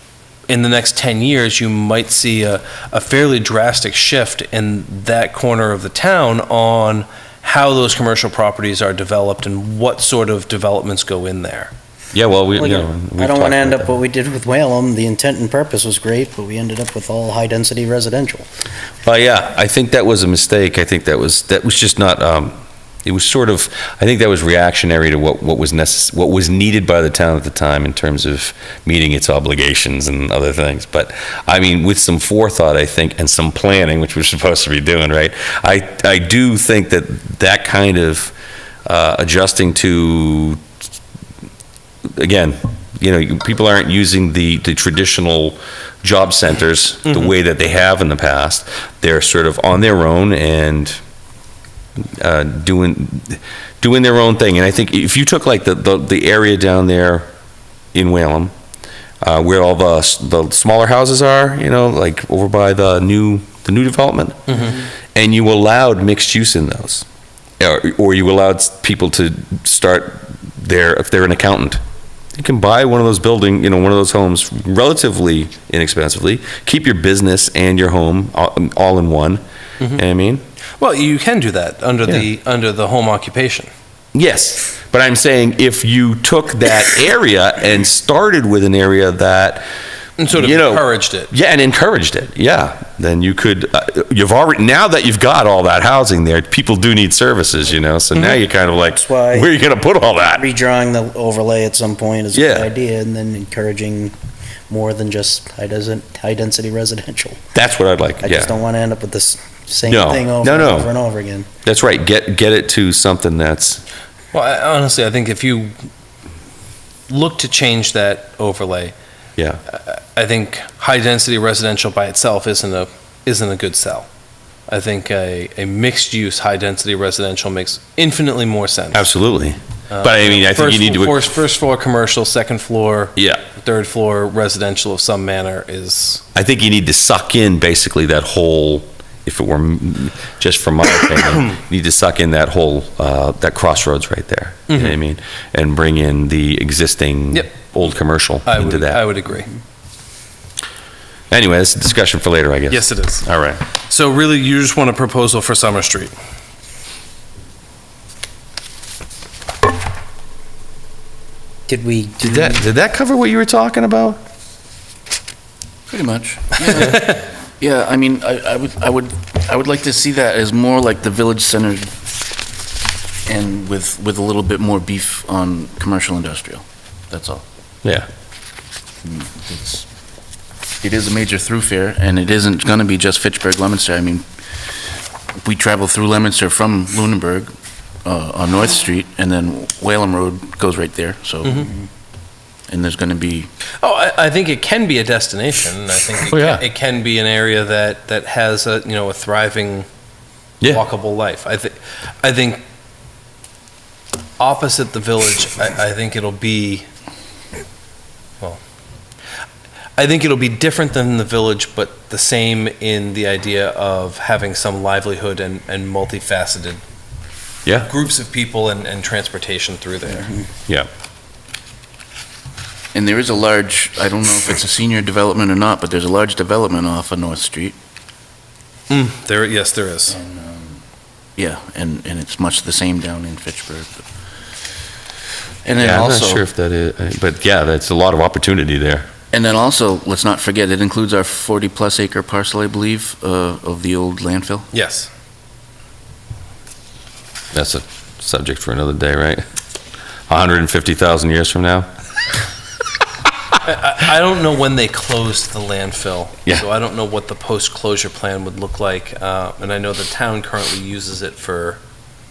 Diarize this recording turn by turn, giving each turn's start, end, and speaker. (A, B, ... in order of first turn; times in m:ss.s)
0:00.5-0:11.7 A
0:12.1-0:13.9 B
0:12.6-0:18.4 C
0:19.0-0:38.3 B
0:38.9-0:40.6 B
0:42.2-0:51.0 B
0:52.0-0:57.3 B
0:57.9-0:58.5 B
0:59.2-1:07.0 B
1:04.5-1:04.8 A
1:07.6-1:11.8 B
1:12.3-1:19.4 B
1:19.9-1:20.4 B
1:20.8-1:23.7 A
1:24.1-1:29.6 B
1:30.2-1:31.3 A
1:30.3-1:40.4 B
1:38.9-1:39.5 C
1:40.4-1:44.1 C
1:42.3-1:42.7 B
1:44.7-1:47.4 C
1:47.5-1:48.5 B
1:48.2-1:51.5 C
1:49.9-1:50.9 B
1:51.6-1:53.8 B
1:54.3-1:55.7 A
1:57.1-1:58.9 A
1:59.7-2:04.1 A
2:04.7-2:09.1 A
2:08.9-2:11.2 B
2:09.9-2:16.2 A
2:16.3-2:29.0 B
2:24.7-2:24.9 A
2:27.3-2:27.6 A
2:28.4-2:29.5 A
2:31.3-2:33.6 B
2:32.7-2:36.1 A
2:41.7-2:42.6 C
2:42.2-2:44.2 B
2:45.9-2:51.9 D
2:53.3-2:57.4 D
2:59.0-2:59.8 D
3:00.8-3:04.2 D
3:05.4-3:07.5 D
3:08.0-3:11.7 D
3:11.4-3:11.7 A
3:12.7-3:13.5 D
3:13.8-3:19.9 A
3:16.3-3:16.6 B
3:20.7-3:22.6 A
3:24.4-3:26.9 A
3:30.0-3:36.8 A
3:37.8-3:40.4 A
3:42.9-3:47.8 D
3:48.9-3:50.2 A
3:50.2-3:50.8 D
3:51.4-3:54.1 D
3:55.6-3:56.4 D
3:55.8-3:59.1 B
3:59.3-4:04.7 D
4:04.7-4:05.1 A
4:07.5-4:09.4 B
4:10.3-4:11.9 B
4:13.6-4:21.8 A